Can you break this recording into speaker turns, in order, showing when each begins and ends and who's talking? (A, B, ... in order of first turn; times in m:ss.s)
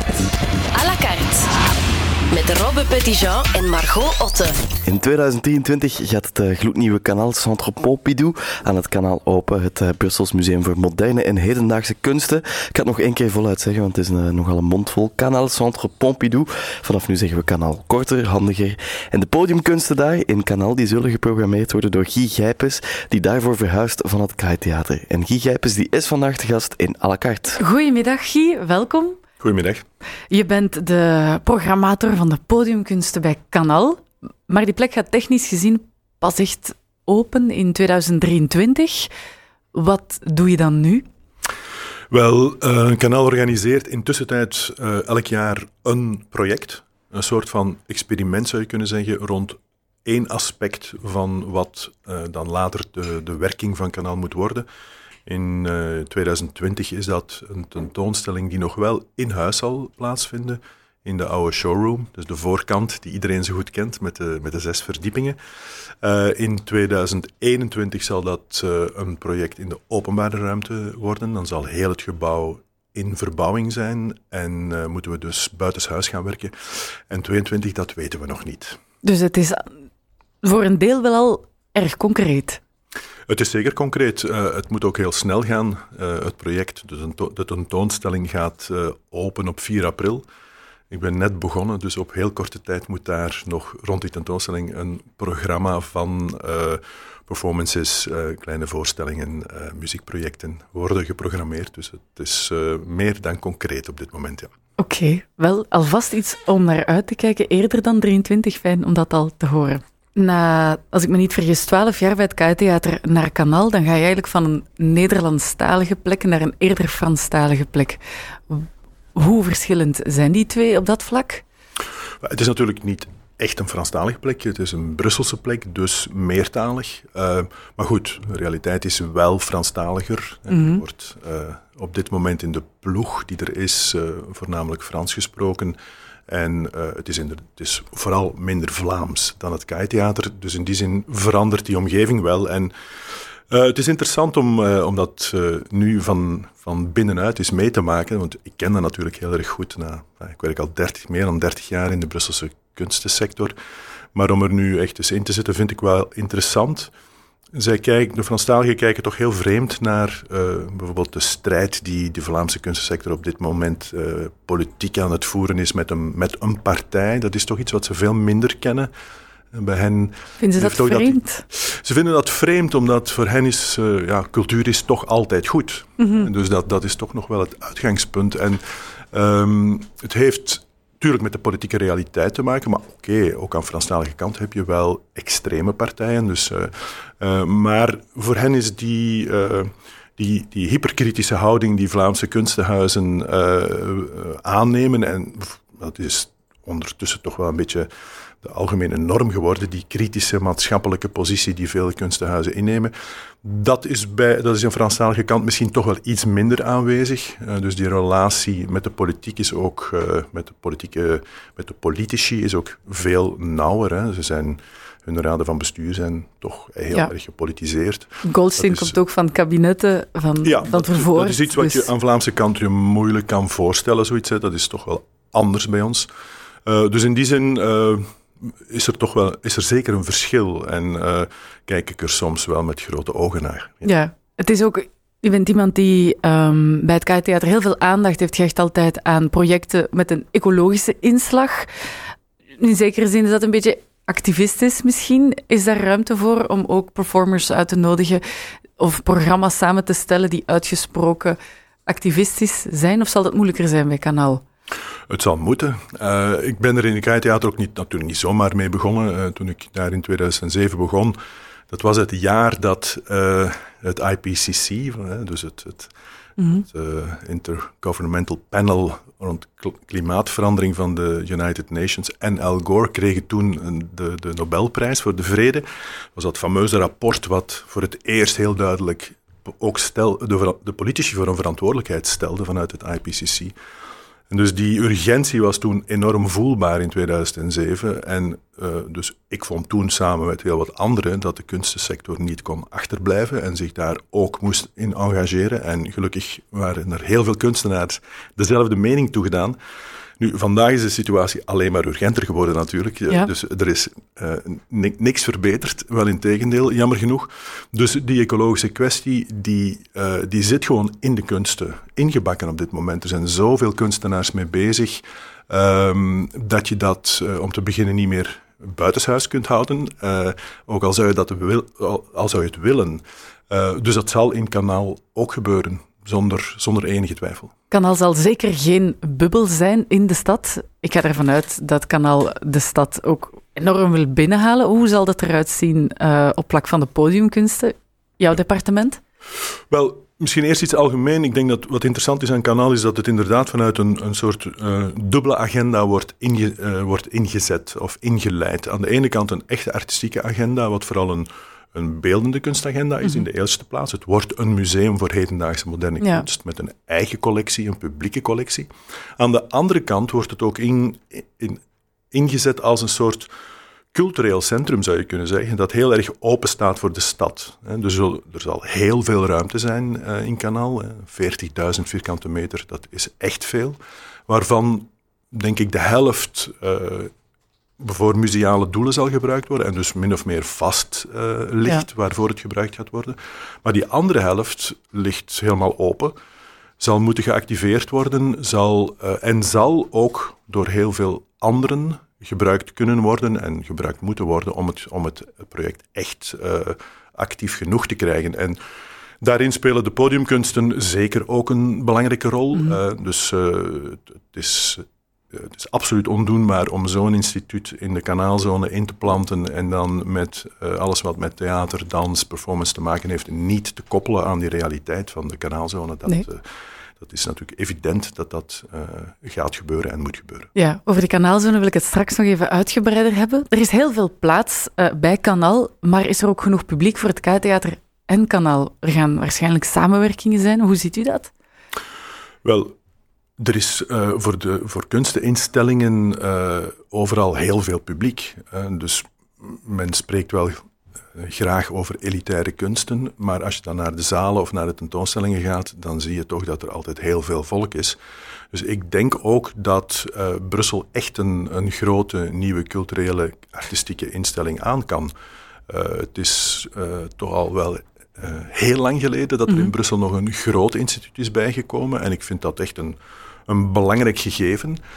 0:00.7-0:01.6 A
0:02.3-0:04.6 A
0:04.9-0:27.6 B
0:27.6-0:29.2 C
0:29.4-0:29.8 D
0:30.3-0:39.1 C
0:39.7-0:41.0 C
0:42.1-0:54.7 D
0:55.3-1:05.4 D
1:06.0-1:18.8 D
1:19.0-1:19.7 C
1:20.4-1:22.6 C
1:23.3-1:30.3 D
1:30.9-1:44.5 D
1:44.8-2:01.4 C
2:02.2-2:15.8 D
2:10.5-2:10.8 C
2:16.3-2:33.6 D
2:34.2-2:36.9 D
2:37.5-2:48.9 D
2:49.5-3:17.9 D
2:50.4-2:51.4 C
2:56.0-2:56.3 C
3:18.4-3:39.0 D
3:38.2-3:41.9 C
3:40.4-3:46.1 D
3:46.7-3:53.9 D
3:53.8-4:01.7 C
4:02.6-4:08.2 C
4:08.8-4:14.4 C
4:15.1-4:21.2 D
4:21.7-4:25.9 D
4:26.4-4:26.7 C
4:26.6-4:43.5 D
4:44.3-4:59.6 D
5:00.2-5:27.5 D
5:27.7-5:39.0 C
5:39.7-6:03.3 D
5:56.0-5:56.2 C
6:03.9-6:17.1 D
6:17.8-6:26.2 D
6:26.8-6:38.6 D
6:39.2-7:00.5 D
7:00.6-7:11.3 C
7:12.4-7:12.8 D
7:13.4-7:20.6 D
7:21.1-7:28.0 D
7:28.5-7:35.1 D
7:35.7-7:44.8 D